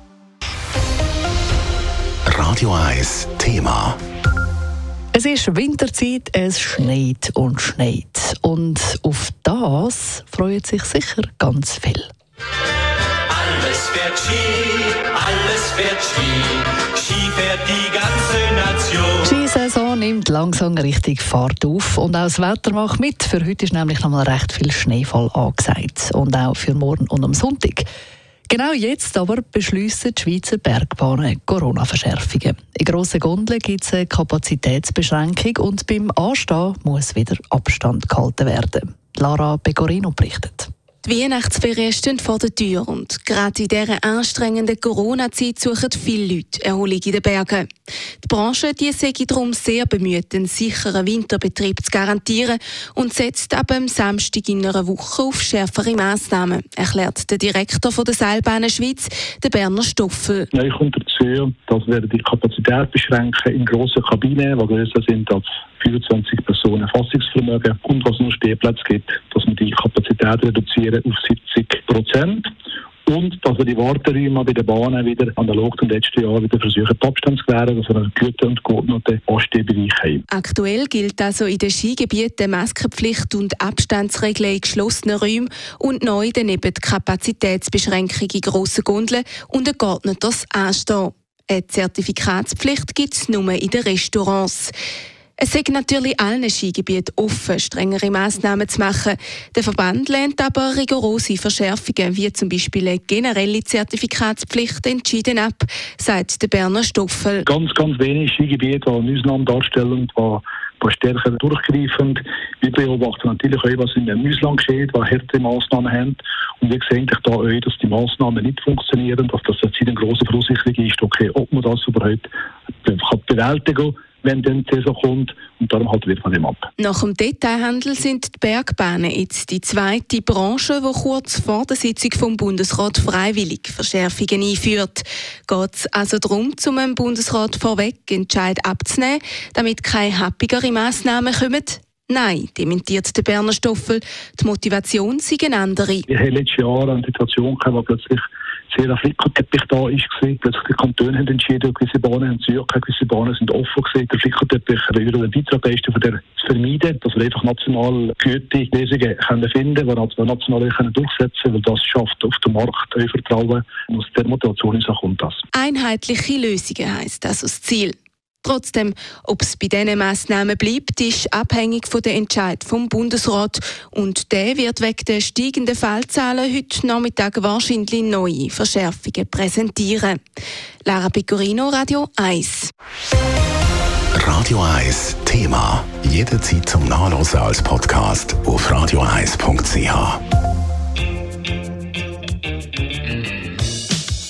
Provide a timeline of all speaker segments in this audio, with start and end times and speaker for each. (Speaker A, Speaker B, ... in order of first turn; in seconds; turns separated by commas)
Speaker A: 2.2-4.0, Speaker B: 5.1-12.1, Speaker C: 13.4-19.1, Speaker B: 19.1-27.9, Speaker B: 28.5-40.7, Speaker D: 41.0-47.6, Speaker D: 48.2-60.5, Speaker E: 60.5-72.5, Speaker E: 73.0-80.2, Speaker D: 80.3-94.7, Speaker D: 95.4-107.5, Speaker E: 107.5-122.3, Speaker E: 122.8-126.7, Speaker D: 126.8-146.1, Speaker E: 146.1-165.4, Speaker D: 165.5-180.2, Speaker D: 180.8-182.7, Speaker A: 184.1-190.2